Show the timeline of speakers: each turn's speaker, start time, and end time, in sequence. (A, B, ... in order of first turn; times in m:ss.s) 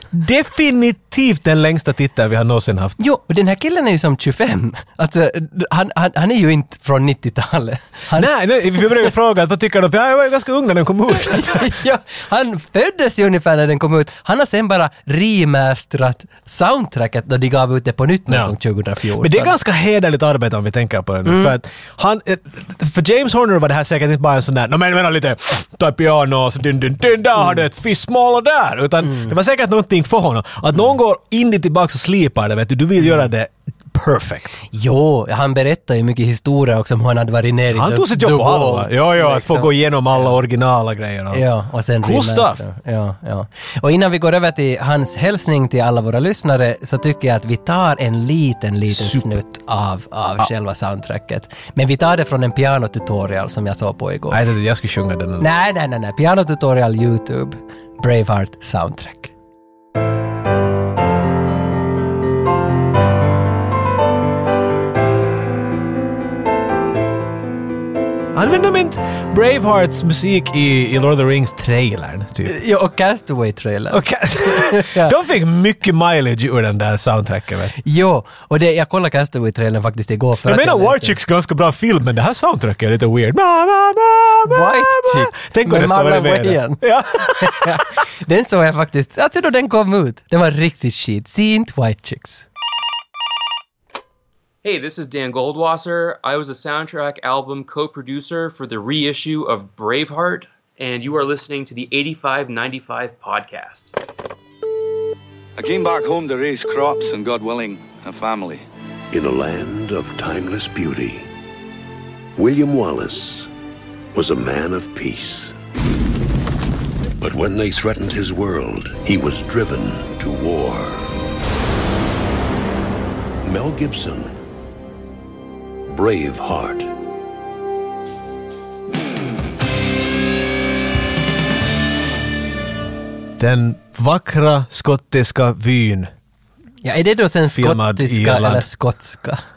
0:00.1-0:03.0 A
0:03.0-0:08.3 B
0:08.1-0:11.8 A
0:11.1-0:19.5 B
0:18.3-0:18.5 A
0:19.2-0:34.5 A
0:21.2-0:21.5 B
0:34.7-0:40.3 B
0:37.7-0:41.4 A
0:41.3-0:54.4 B
0:42.0-0:42.6 A
0:48.9-0:49.3 A
0:54.3-0:55.4 A
0:55.4-0:59.3 B
1:08.3-1:12.6 A
1:12.4-1:15.1 B
1:13.9-1:17.7 A
1:17.8-1:21.2 B
1:20.4-1:27.8 A
1:24.5-1:32.5 B
1:34.6-1:43.9 C
1:45.6-1:48.6 D
1:49.1-1:51.3 E
1:52.4-1:53.5 E
1:54.1-1:55.5 E
1:57.2-2:01.1 E
2:03.4-2:04.3 E
2:05.9-2:06.9 E
2:13.4-2:16.1 A
2:16.8-2:19.4 B
2:17.5-2:18.7 A